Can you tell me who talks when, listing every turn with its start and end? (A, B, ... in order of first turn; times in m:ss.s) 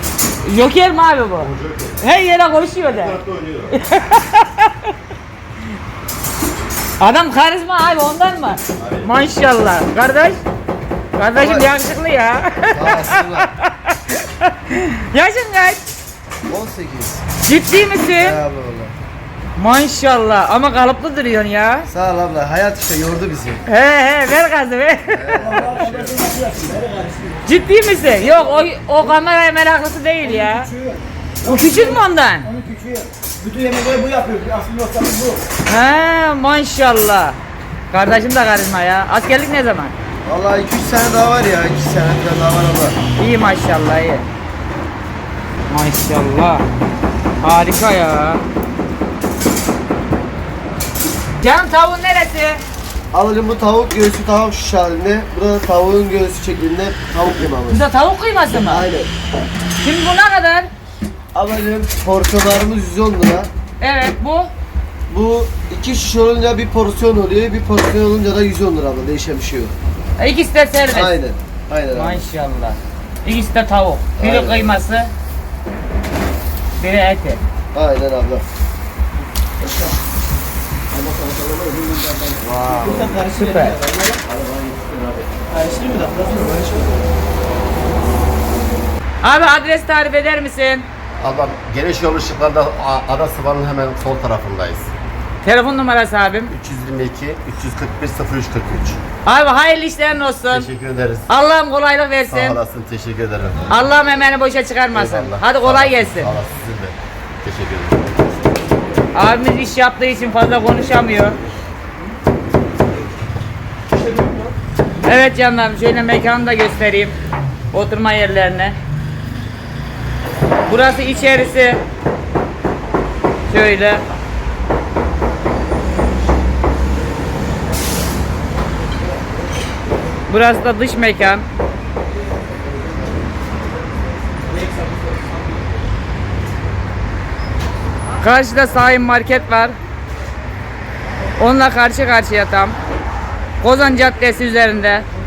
0:00.4-0:01.5 A
0:01.4-0:02.0 B
0:02.0-0:03.2 A
0:02.9-0:03.8 B
0:03.7-0:04.9 A
0:07.0-0:10.4 A
0:08.8-0:09.1 B
0:11.2-0:15.8 A
0:11.4-0:11.7 C
0:12.7-0:13.5 C
0:16.5-0:17.2 C
0:17.4-0:18.4 A
0:18.2-0:18.9 C
0:19.6-0:21.9 A
0:21.9-0:23.6 C
0:23.7-0:25.4 A
0:25.1-0:26.1 C
0:25.4-0:27.4 D
0:27.5-0:30.7 A
0:28.3-0:28.5 D
0:30.2-0:35.4 D
0:31.4-0:32.5 A
0:35.7-0:37.4 A
0:37.9-0:39.9 A
0:40.2-0:43.0 C
0:43.2-0:44.2 A
0:45.7-0:46.6 A
0:47.4-0:48.4 A
0:51.4-0:52.6 A
0:53.1-0:57.8 C
0:57.7-0:58.9 A
0:58.5-0:59.1 C
0:59.8-1:00.7 A
1:01.3-1:03.5 C
1:03.8-1:04.5 A
1:05.1-1:09.8 C
1:10.2-1:11.2 A
1:10.9-1:12.2 C
1:11.9-1:15.1 A
1:14.2-1:14.8 C
1:16.8-1:17.4 A
1:17.7-1:18.4 C
1:19.6-1:19.9 D
1:20.9-1:27.0 D
1:22.4-1:23.2 C
1:23.3-1:23.8 A
1:25.8-1:26.2 C
1:29.2-1:30.9 A
1:31.2-1:34.9 B
1:35.4-1:36.5 A
1:36.5-1:39.0 B
1:39.2-1:40.7 A
1:40.5-1:41.3 B
1:41.3-1:42.6 A
1:42.3-1:43.8 B
1:43.7-1:46.3 A
1:44.9-1:48.1 B
1:49.1-1:51.4 A
1:54.0-1:54.5 C
1:55.0-1:57.2 A
1:57.7-1:58.8 A
2:00.7-2:01.8 A
2:03.5-2:04.0 A
2:10.3-2:11.5 A
2:18.2-2:19.8 A
2:21.4-2:22.8 A
2:23.6-2:25.1 A